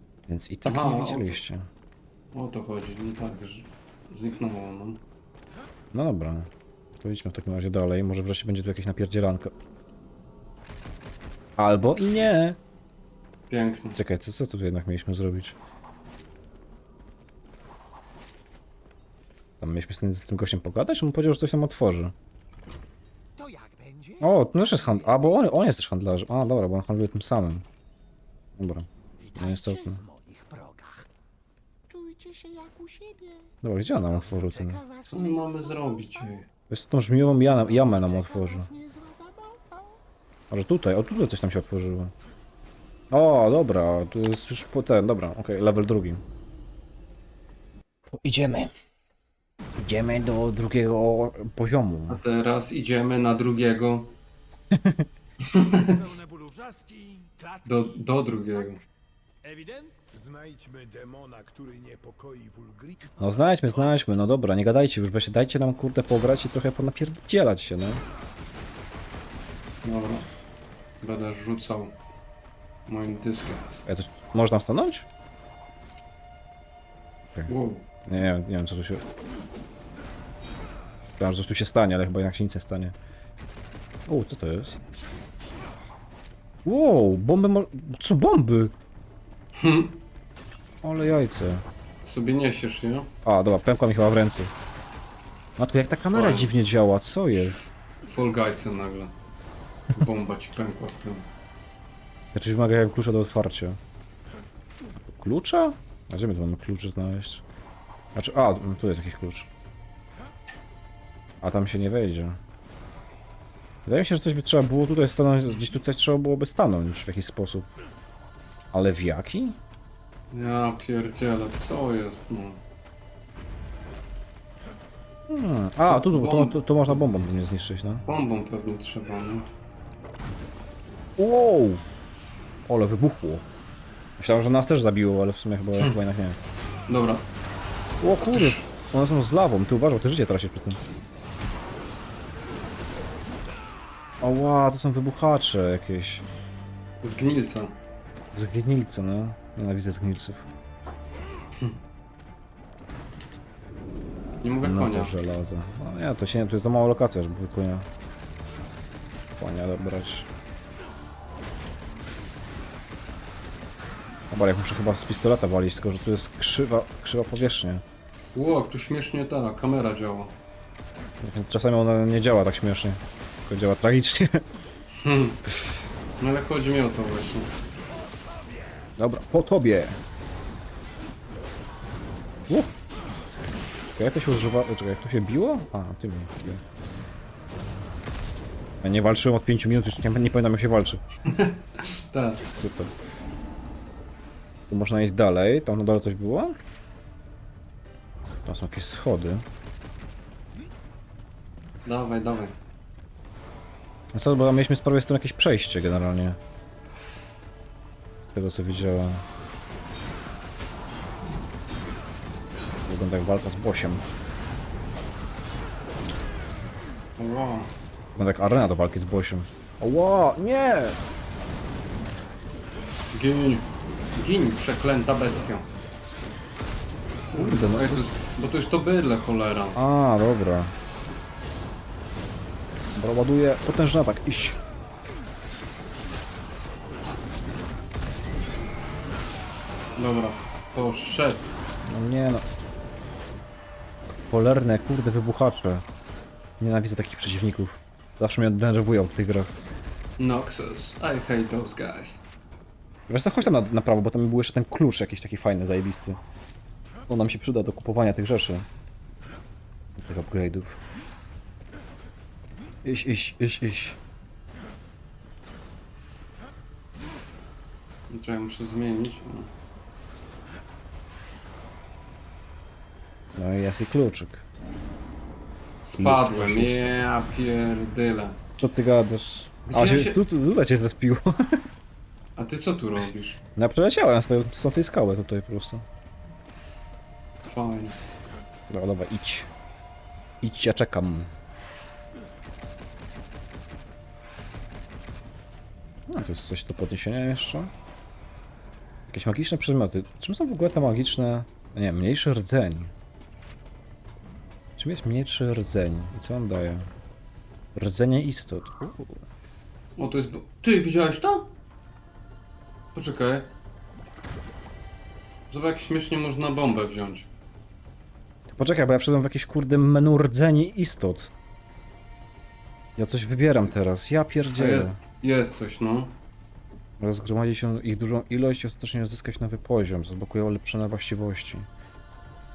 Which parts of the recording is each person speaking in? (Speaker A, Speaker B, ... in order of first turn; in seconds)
Speaker A: 0.3-1.7, 5.9-9.5, 11.6-12.6, 13.9-15.6, 19.6-22.1, 24.2-27.7, 28.6-30.0, 33.6-34.8, 36.7-38.7, 40.5-42.1, 43.1-46.2, 48.1-48.7, 49.8-52.2, 54.7-55.1, 63.2-68.0, 73.9-75.1, 78.0-79.0, 81.2-83.0, 84.1-84.8, 86.7-88.7, 90.8-91.7, 93.2-94.5, 95.6-97.6, 102.3-103.8, 105.1-107.4, 108.2-109.5, 111.4-112.4, 113.9-117.7, 118.7-119.6, 125.3-128.0, 131.2-131.8, 132.7-133.4, 134.2-136.4, 138.0-140.8, 144.2-146.2, 148.3-150.5, 154.6-157.9, 159.4-160.3, 164.3-167.8, 171.2-174.4, 179.0-180.0, 182.5-182.7, 184.0-186.6, 188.8-191.0, 192.6-192.9, 194.7-196.6, 198.4-199.4, 204.1-206.4, 208.3-209.2, 212.8-214.0, 218.2-221.0, 227.3-228.1, 229.8-230.7, 232.9-234.6, 241.8-242.4, 244.3-245.8, 246.6-249.5, 253.1-256.2, 257.1-258.7, 260.0-260.8, 262.8-264.0, 273.4-274.4, 276.0-277.0, 278.6-281.6, 283.6-285.9, 288.7-289.5, 290.4-291.3, 296.1-297.7, 299.1-302.9, 304.8-306.9, 307.7-309.2, 318.5-321.3, 323.0-325.0, 327.0-331.7
Speaker B: 0.7-1.4, 2.3-5.0, 13.5-14.0, 35.1-36.5, 52.1-54.2, 55.4-56.0, 57.7-58.8, 69.8-70.3, 71.0-72.0, 72.9-73.7, 77.5-77.9, 89.5-90.0, 92.0-93.1, 96.1-96.5, 98.0-99.1, 99.9-101.3, 120.3-122.6, 125.9-127.0, 128.1-129.5, 136.9-137.3, 138.2-138.7, 147.0-147.8, 154.4-155.1, 168.3-170.3, 175.0-175.6, 176.2-177.5, 191.3-192.4, 201.8-202.6, 217.2-217.7, 223.1-225.7, 227.3-229.8, 240.0-241.5, 250.2-252.3, 268.1-269.5, 275.8-278.4, 279.7-280.2, 282.4-283.4, 287.4-288.0, 310.0-311.5, 312.9-313.5, 315.5-317.3, 324.5-326.1
Speaker C: 23.4-25.6, 29.2-31.1, 31.9-36.3, 37.4-40.0
Speaker D: 55.8-58.8, 59.4-60.0, 63.2-64.0
Speaker E: 60.1-63.2